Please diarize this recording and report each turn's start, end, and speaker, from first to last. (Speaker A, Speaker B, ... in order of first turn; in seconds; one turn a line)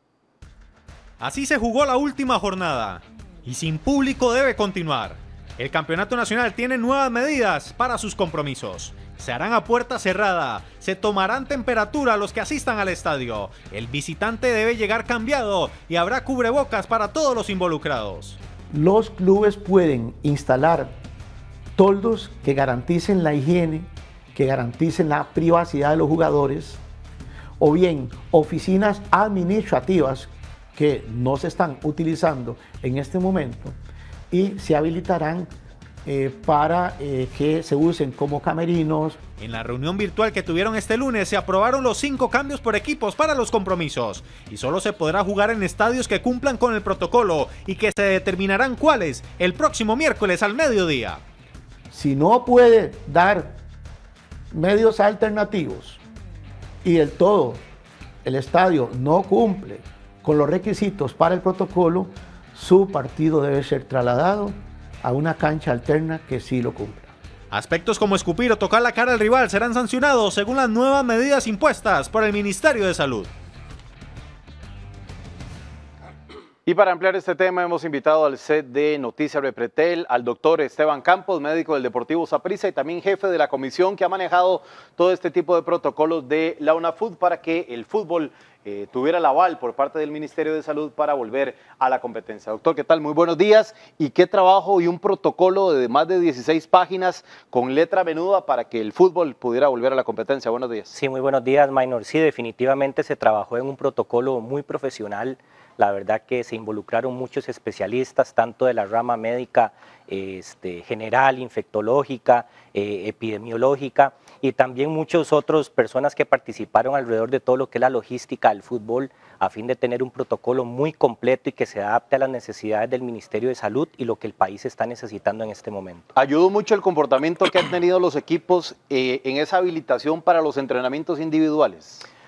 Speaker A: 1.2-18.4
Speaker B: 18.7-20.9
Speaker B: 21.8-26.8
Speaker B: 27.6-33.8
Speaker B: 34.3-35.5
Speaker B: 36.0-39.2
Speaker A: 39.4-51.2
Speaker B: 51.9-53.6
Speaker B: 54.5-56.0
Speaker B: 56.8-57.6
Speaker B: 58.2-67.1
Speaker A: 67.5-73.3
Speaker C: 76.7-100.9
Speaker D: 100.9-126.1
Speaker C: 126.2-132.1